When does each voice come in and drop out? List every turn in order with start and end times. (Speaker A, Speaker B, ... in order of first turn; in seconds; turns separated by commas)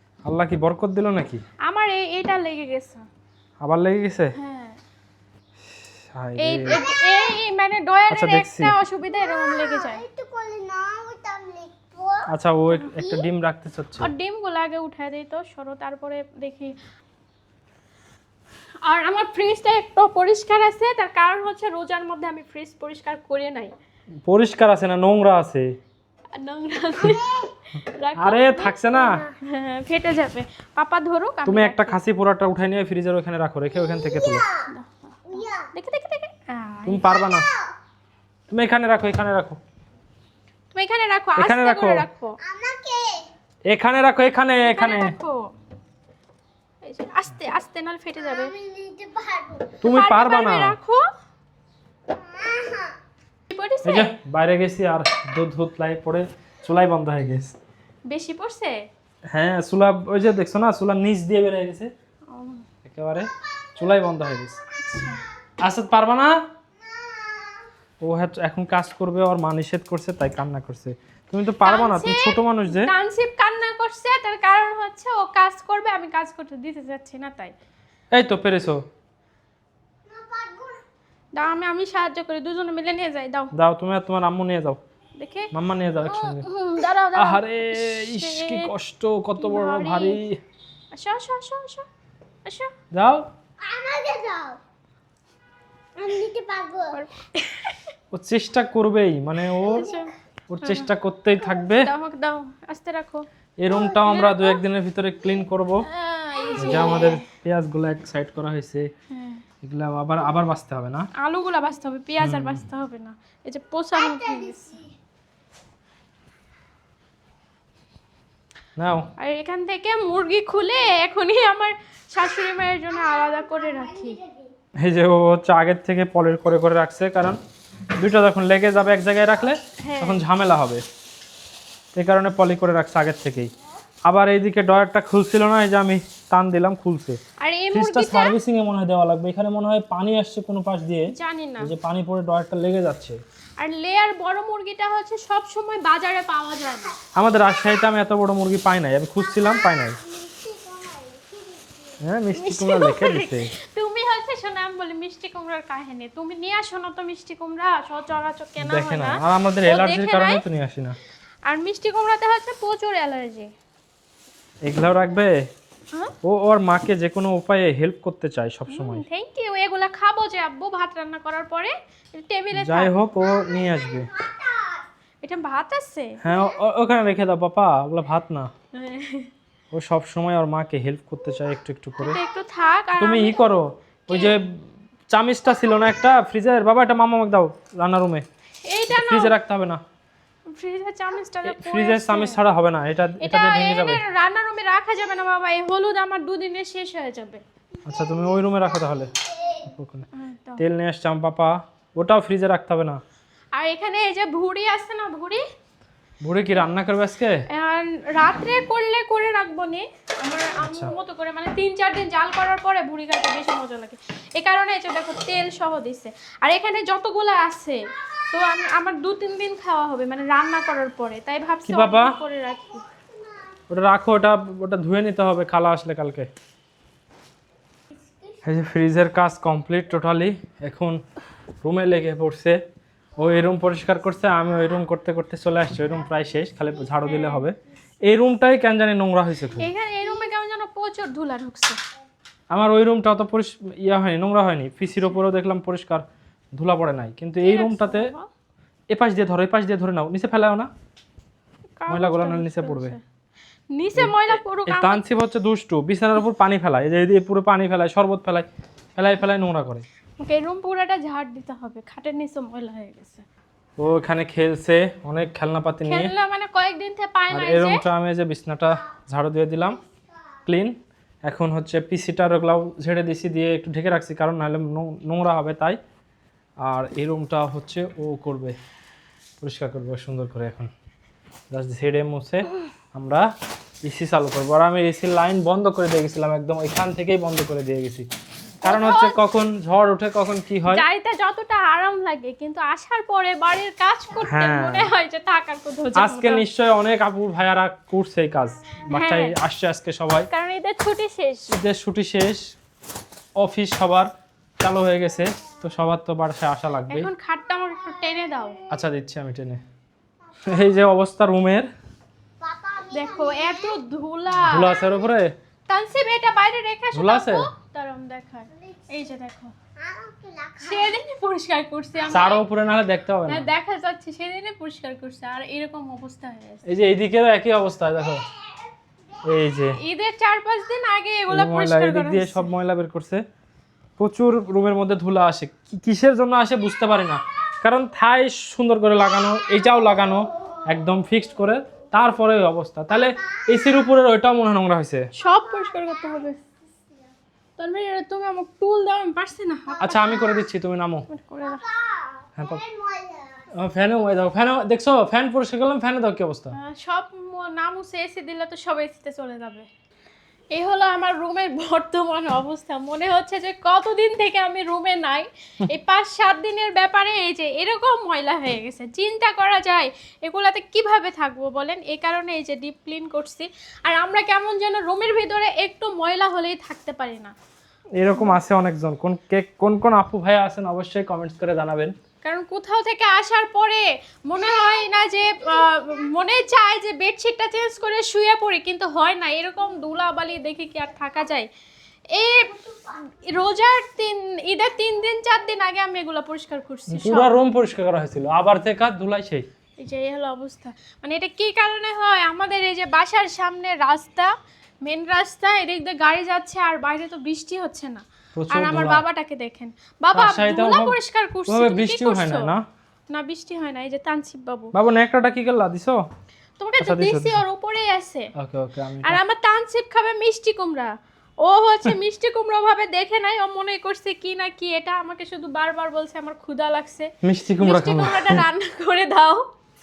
Speaker A: 0.2-1.4, Speaker B: 1.7-3.1, Speaker A: 3.6-4.4, Speaker B: 4.3-4.8, Speaker A: 5.8-6.8, Speaker B: 6.4-10.0, Speaker C: 6.7-7.2, Speaker A: 8.1-8.8, Speaker C: 9.1-12.3, Speaker A: 12.3-14.1, Speaker B: 14.0-16.8, Speaker B: 18.8-23.7, Speaker A: 24.2-25.7, Speaker B: 26.3-28.8, Speaker C: 27.1-27.5, Speaker A: 28.2-29.2, Speaker C: 29.0-29.4, Speaker B: 29.4-32.0, Speaker A: 31.4-34.5, Speaker C: 33.8-34.6, Speaker B: 34.6-37.2, Speaker C: 35.3-35.7, Speaker A: 36.9-37.5, Speaker C: 37.0-37.7, Speaker A: 38.5-39.6, Speaker B: 40.7-42.4, Speaker A: 41.4-42.0, Speaker C: 42.4-43.3, Speaker A: 43.7-45.2, Speaker B: 44.6-45.5, Speaker B: 46.8-48.5, Speaker C: 48.2-49.8, Speaker A: 49.8-50.8, Speaker B: 49.8-51.0, Speaker C: 52.1-53.0, Speaker B: 53.5-54.1, Speaker A: 53.8-57.5, Speaker B: 58.1-58.8, Speaker A: 59.3-61.9, Speaker B: 62.3-62.6, Speaker A: 62.9-64.6, Speaker B: 64.7-65.2, Speaker A: 65.6-66.4, Speaker C: 66.9-67.6, Speaker A: 68.0-72.9, Speaker B: 71.6-77.5, Speaker A: 78.1-78.8, Speaker C: 80.1-80.8, Speaker B: 81.4-83.5, Speaker A: 83.5-84.8, Speaker B: 85.2-88.7, Speaker A: 85.5-86.5, Speaker A: 87.2-90.4, Speaker B: 89.4-90.2, Speaker B: 90.9-91.9, Speaker B: 92.5-92.7, Speaker A: 92.9-93.2, Speaker C: 93.6-94.6, Speaker C: 96.0-97.0, Speaker B: 96.9-97.8, Speaker A: 98.1-99.9, Speaker B: 99.6-100.1, Speaker A: 100.5-101.9, Speaker B: 100.6-100.9, Speaker B: 101.5-103.2, Speaker A: 103.6-105.9, Speaker B: 104.0-104.6, Speaker B: 105.8-107.2, Speaker A: 106.6-108.9, Speaker C: 106.7-107.1, Speaker B: 109.1-109.4, Speaker A: 109.6-111.1, Speaker B: 111.2-114.8, Speaker A: 112.2-112.6, Speaker C: 114.0-114.9, Speaker A: 118.8-119.1, Speaker B: 119.2-124.2, Speaker C: 123.1-124.5, Speaker A: 124.8-127.4, Speaker A: 128.0-130.8, Speaker B: 129.8-130.2, Speaker A: 131.9-133.5, Speaker A: 134.0-137.2, Speaker B: 137.4-138.3, Speaker A: 137.7-143.2, Speaker B: 141.1-141.7, Speaker B: 143.6-147.0, Speaker A: 147.1-150.0, Speaker C: 149.3-152.0, Speaker A: 152.0-153.5, Speaker B: 152.3-160.4, Speaker A: 158.6-161.0, Speaker B: 161.5-163.5, Speaker A: 164.6-165.3, Speaker A: 166.2-169.0, Speaker B: 168.7-172.9, Speaker A: 172.6-174.1, Speaker C: 173.4-174.8, Speaker B: 175.2-176.2, Speaker A: 176.2-178.5, Speaker B: 178.8-179.3, Speaker A: 179.7-182.2, Speaker B: 182.0-183.5, Speaker A: 183.0-188.2, Speaker B: 184.1-184.4, Speaker B: 188.6-189.4, Speaker A: 188.9-189.8, Speaker B: 190.5-192.4, Speaker A: 191.4-194.0, Speaker B: 193.2-197.4, Speaker A: 197.9-203.0, Speaker B: 200.1-200.6, Speaker B: 203.5-205.4, Speaker A: 206.2-207.4, Speaker B: 207.5-217.8, Speaker A: 210.6-210.9, Speaker B: 218.3-222.8, Speaker A: 221.7-222.2, Speaker C: 222.9-223.4, Speaker A: 223.7-226.3, Speaker C: 228.0-228.4, Speaker A: 228.4-231.0, Speaker A: 231.6-232.6, Speaker A: 233.2-239.7, Speaker B: 237.0-237.4, Speaker B: 239.6-241.8, Speaker A: 242.5-248.1, Speaker B: 247.4-248.3, Speaker A: 248.9-250.7, Speaker B: 251.8-253.0, Speaker A: 251.9-253.0, Speaker B: 253.7-255.0, Speaker A: 254.0-259.9, Speaker B: 260.2-263.2, Speaker A: 263.8-266.1, Speaker B: 265.9-267.8, Speaker A: 267.3-269.8, Speaker A: 270.5-275.8, Speaker A: 276.6-278.6, Speaker A: 279.4-280.7, Speaker A: 281.5-283.2, Speaker A: 283.8-288.1, Speaker B: 288.6-289.2, Speaker A: 288.6-290.9, Speaker B: 290.7-296.4, Speaker A: 294.2-294.9, Speaker A: 296.0-300.3, Speaker B: 298.9-299.4, Speaker B: 300.3-301.5, Speaker A: 301.5-302.5, Speaker A: 303.4-307.1, Speaker B: 306.9-308.6, Speaker A: 308.7-309.6, Speaker C: 310.3-310.6, Speaker A: 310.4-311.7, Speaker C: 312.4-313.8, Speaker B: 312.9-314.8, Speaker A: 314.4-315.3, Speaker B: 315.7-319.5, Speaker A: 316.9-317.5, Speaker C: 319.8-320.9, Speaker B: 320.6-322.4, Speaker A: 322.1-323.5, Speaker B: 323.3-326.6, Speaker A: 326.7-328.2, Speaker A: 329.2-329.8, Speaker B: 329.8-332.5, Speaker A: 331.3-333.2, Speaker A: 334.0-345.1, Speaker B: 345.1-346.4, Speaker C: 345.3-346.4, Speaker B: 347.6-350.2, Speaker A: 349.8-351.1, Speaker C: 349.9-350.4, Speaker B: 351.1-351.6, Speaker C: 351.5-353.5, Speaker A: 352.4-352.6, Speaker A: 353.6-356.5, Speaker B: 356.5-359.7, Speaker B: 360.5-377.4, Speaker A: 378.0-381.9, Speaker B: 382.2-391.5, Speaker B: 392.1-397.3, Speaker A: 396.9-399.5, Speaker B: 399.8-412.5, Speaker A: 408.4-409.0, Speaker A: 410.1-412.6, Speaker B: 413.1-414.7, Speaker A: 414.7-416.0, Speaker B: 416.6-418.3, Speaker A: 416.8-417.4, Speaker A: 418.4-419.2, Speaker B: 419.0-429.5, Speaker A: 427.2-428.5